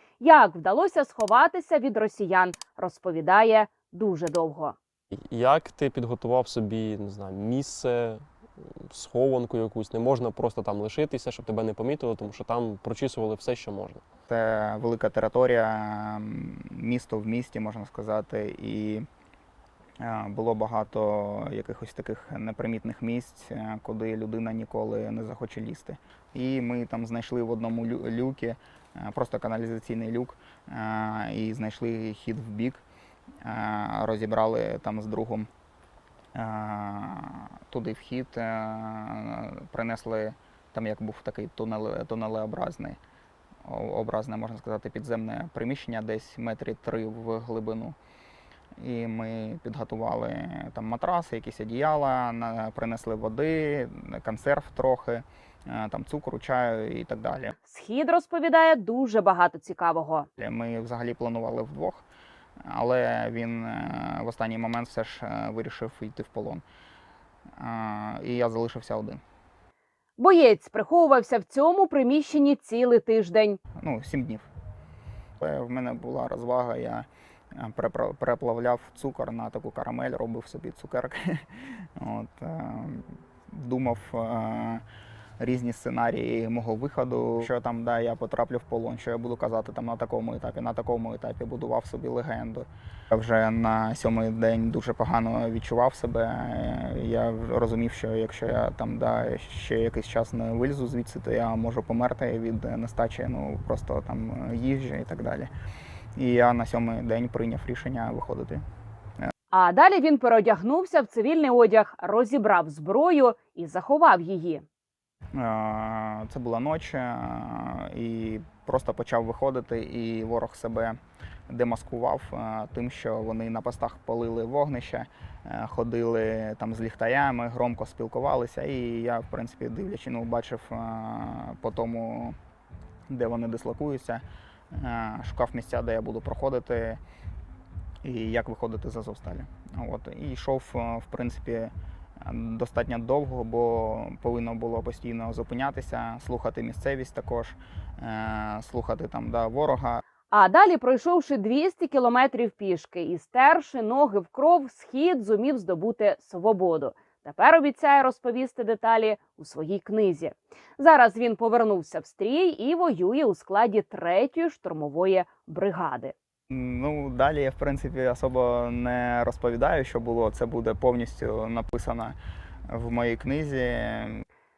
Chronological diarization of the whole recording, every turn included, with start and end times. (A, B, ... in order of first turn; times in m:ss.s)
0:00.2-0:04.8 A
0:05.1-0:14.0 B
0:14.3-0:19.0 C
0:20.0-0:32.8 C
0:33.4-0:35.5 C
0:36.4-0:43.0 C
0:43.7-0:48.0 C
0:48.8-0:57.5 C
0:57.6-1:00.3 A
1:00.4-1:02.0 C
1:02.7-1:06.6 C
1:07.6-1:09.2 C
1:10.2-1:13.6 A
1:13.8-1:14.5 C
1:15.4-1:24.8 C
1:25.4-1:45.5 C
1:46.2-1:48.6 C
1:49.5-1:54.6 A
1:55.4-2:01.0 C
2:01.5-2:12.4 C
2:13.1-2:17.0 C
2:18.0-2:21.7 C
2:22.2-2:30.0 C
2:30.3-2:46.1 A
2:46.5-2:52.2 C
2:52.7-2:54.2 C